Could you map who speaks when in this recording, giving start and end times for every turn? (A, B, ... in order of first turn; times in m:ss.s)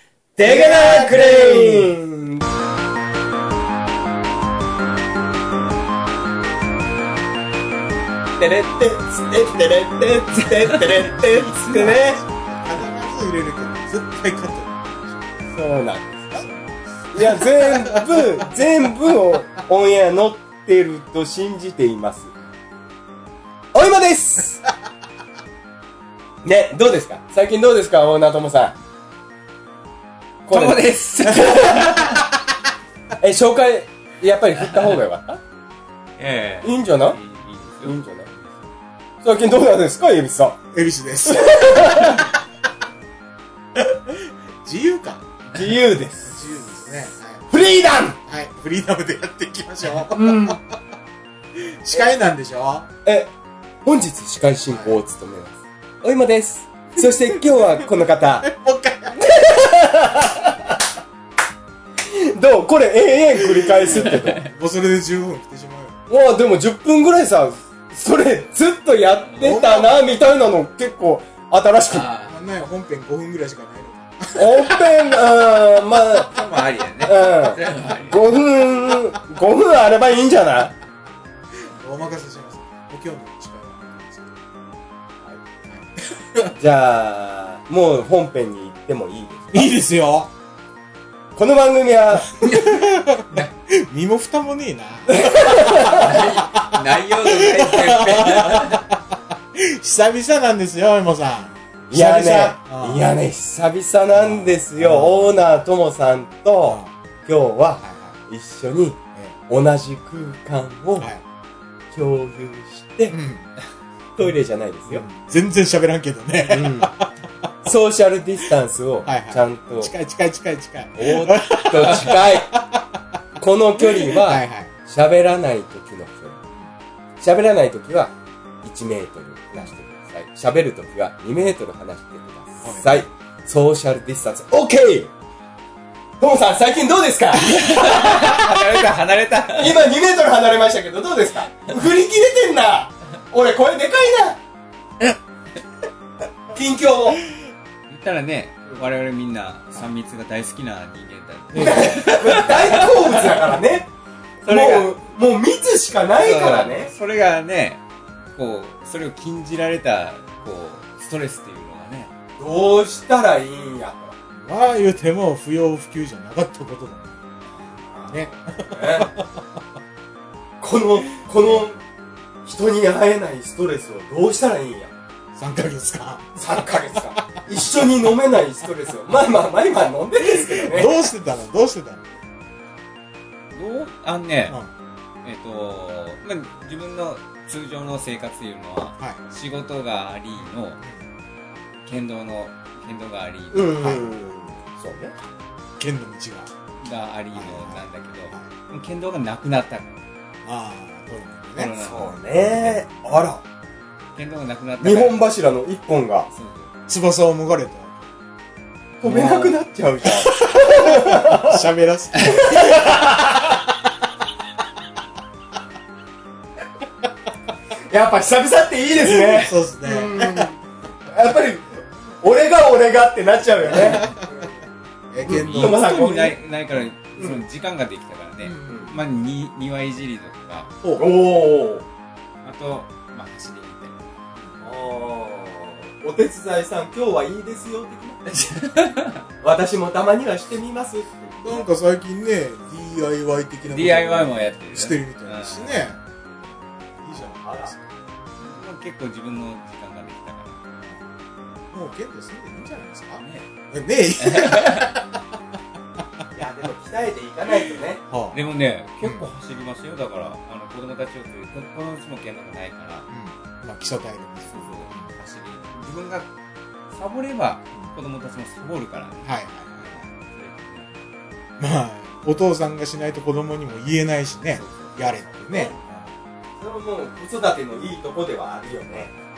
0:00.4-0:02.4 A
0:00.4-0:02.0 B
0:08.4-0:12.2 A
0:10.4-0:12.0 C
0:11.7-0:15.3 B
0:15.5-0:16.4 A
0:16.3-0:19.1 B
0:17.1-0:22.3 A
0:23.7-0:24.6 A
0:26.4-0:28.8 A
0:30.4-0:32.0 A
0:30.5-0:32.2 C
0:31.4-0:32.3 B
0:33.2-0:35.4 A
0:34.6-0:35.0 C
0:36.2-0:38.7 C
0:36.6-0:37.2 A
0:37.8-0:38.3 A
0:39.2-0:40.6 A
0:40.7-0:42.4 B
0:41.2-0:42.3 A
0:43.8-0:45.2 B
0:45.5-0:46.6 A
0:46.2-0:47.5 B
0:47.5-0:48.2 A
0:48.2-0:50.8 B
0:50.1-0:50.6 A
0:51.5-0:52.9 B
0:53.0-0:53.3 A
0:53.8-0:58.5 A
0:54.7-0:55.0 B
0:57.0-0:57.6 B
0:58.4-0:59.6 B
0:59.1-1:00.8 A
1:02.0-1:04.4 A
1:03.6-1:06.0 B
1:04.1-1:04.5 C
1:06.1-1:12.1 A
1:09.3-1:09.6 C
1:09.4-1:10.1 B
1:11.9-1:12.4 C
1:12.2-1:14.8 B
1:14.3-1:16.4 A
1:16.0-1:18.2 C
1:17.0-1:20.7 A
1:21.6-1:24.4 B
1:25.7-1:26.5 B
1:26.5-1:29.8 A
1:29.5-1:30.3 B
1:31.4-1:32.4 A
1:32.4-1:43.1 B
1:32.4-1:33.5 C
1:35.1-1:36.3 A
1:35.5-1:38.8 C
1:41.9-1:51.1 A
1:44.1-1:45.3 B
1:46.6-1:46.9 B
1:47.8-1:48.2 B
1:51.9-1:53.2 A
1:53.1-1:53.5 B
1:54.2-1:55.0 A
1:54.9-1:57.5 B
1:56.5-1:56.9 A
1:57.6-1:59.9 A
1:59.0-2:03.2 B
2:01.0-2:02.5 A
2:03.4-2:06.4 A
2:04.0-2:04.7 B
2:07.2-2:15.1 A
2:12.6-2:13.0 B
2:16.2-2:18.6 A
2:17.4-2:19.8 C
2:19.5-2:24.4 A
2:26.5-2:27.2 A
2:27.9-2:33.4 C
2:31.5-2:32.1 B
2:31.6-2:33.9 A
2:34.4-2:34.9 C
2:34.4-2:36.9 A
2:36.2-2:37.8 C
2:38.3-2:42.1 C
2:42.4-2:44.2 A
2:44.3-2:47.5 B
2:47.8-2:49.1 A
2:48.1-2:49.4 B
2:50.6-2:51.8 A
2:52.4-2:54.9 A
2:55.3-2:57.3 B
2:56.4-3:01.0 A
3:00.4-3:02.1 B
3:03.5-3:04.6 C
3:05.2-3:10.8 C
3:10.4-3:11.1 B
3:11.8-3:13.9 C
3:13.5-3:15.1 A
3:13.8-3:14.1 B
3:15.8-3:16.5 B
3:16.8-3:20.0 C
3:17.3-3:18.5 B
3:20.4-3:21.8 B
3:21.6-3:22.8 C
3:21.7-3:23.4 A
3:22.3-3:23.0 B
3:24.2-3:25.2 C
3:24.8-3:26.3 A
3:26.3-3:26.7 C
3:26.9-3:28.1 B
3:29.0-3:31.6 A
3:29.0-3:33.6 B
3:32.2-3:33.6 A
3:37.9-3:44.1 A
3:39.0-3:40.5 B
3:43.6-3:44.5 B
3:45.1-3:45.8 B
3:45.2-3:46.4 A
3:45.3-3:50.7 C
3:48.4-3:49.0 B
3:48.7-3:48.9 A
3:50.8-3:51.1 B
3:51.0-3:51.8 A
3:52.4-3:54.3 C
3:54.6-3:58.2 A
3:58.2-3:59.2 C
3:59.4-4:01.7 A
4:01.4-4:06.0 B
4:03.7-4:05.9 C
4:07.0-4:07.9 B
4:07.2-4:07.7 A
4:08.4-4:10.6 C
4:11.7-4:15.2 B
4:13.2-4:13.5 C
4:14.2-4:14.9 C
4:16.3-4:18.0 A
4:18.1-4:18.4 B
4:18.3-4:23.1 C
4:19.0-4:19.3 B
4:23.1-4:25.1 B
4:24.5-4:26.3 C
4:26.9-4:30.9 C
4:29.2-4:30.1 B
4:31.6-4:36.1 B
4:34.5-4:35.6 C
4:36.6-4:39.1 A